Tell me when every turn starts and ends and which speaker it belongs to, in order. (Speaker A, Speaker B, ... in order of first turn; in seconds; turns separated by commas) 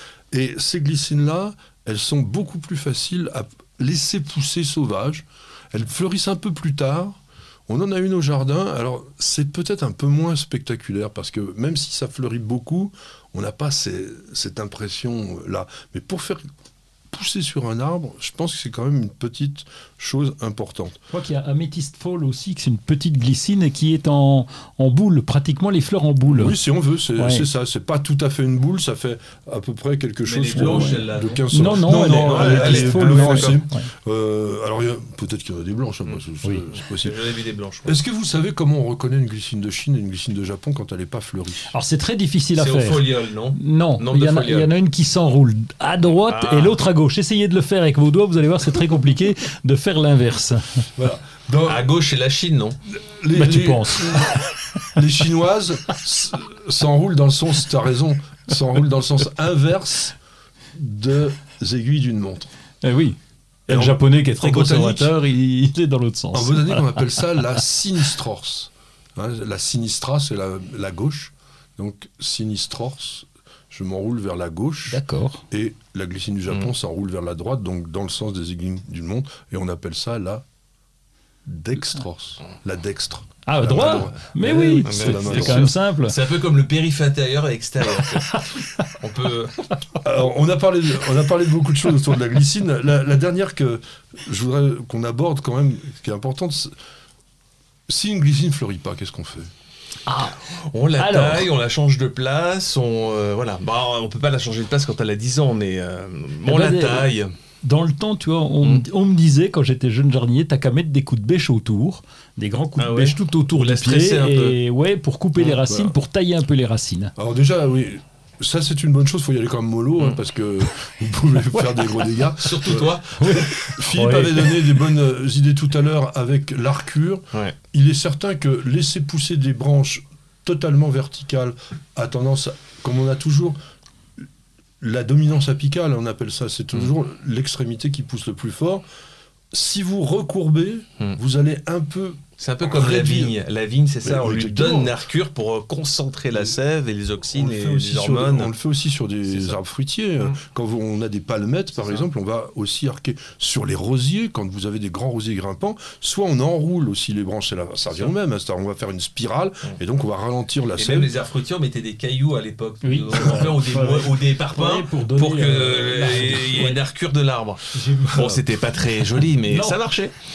Speaker A: 0.3-7.2, Speaker A: 7.7-16.4, Speaker A: 17.1-21.0, Speaker B: 21.1-26.6, Speaker A: 26.3-37.2, Speaker B: 27.1-27.5, Speaker C: 30.2-33.6, Speaker B: 30.5-33.9, Speaker C: 36.9-38.0, Speaker A: 37.8-41.7, Speaker B: 41.7-50.8, Speaker C: 42.5-44.7, Speaker C: 46.1-46.8, Speaker A: 51.0-51.9, Speaker C: 51.6-52.8, Speaker A: 52.9-54.3, Speaker B: 53.3-55.0, Speaker A: 54.9-60.1, Speaker A: 60.7-62.5, Speaker B: 62.8-67.5, Speaker A: 63.7-65.2, Speaker A: 66.3-80.4, Speaker B: 74.9-75.4, Speaker A: 81.4-85.7, Speaker B: 83.4-86.2, Speaker C: 83.8-84.1, Speaker C: 84.8-88.4, Speaker B: 87.9-88.9, Speaker C: 89.0-89.5, Speaker A: 90.0-96.7, Speaker A: 97.9-99.5, Speaker B: 100.1-100.3, Speaker C: 100.2-107.3, Speaker B: 101.0-101.5, Speaker B: 106.4-117.1, Speaker C: 108.6-108.8, Speaker C: 112.8-114.5, Speaker C: 115.3-115.6, Speaker A: 115.7-116.0, Speaker A: 117.2-133.6, Speaker B: 121.4-124.9, Speaker C: 122.4-123.5, Speaker A: 134.8-138.8, Speaker A: 139.5-143.4, Speaker C: 142.4-148.5, Speaker A: 144.0-144.9, Speaker A: 147.3-161.1, Speaker C: 149.2-149.6, Speaker C: 151.7-152.1, Speaker C: 160.7-170.1, Speaker B: 162.8-166.8, Speaker B: 167.7-168.5, Speaker B: 169.4-169.8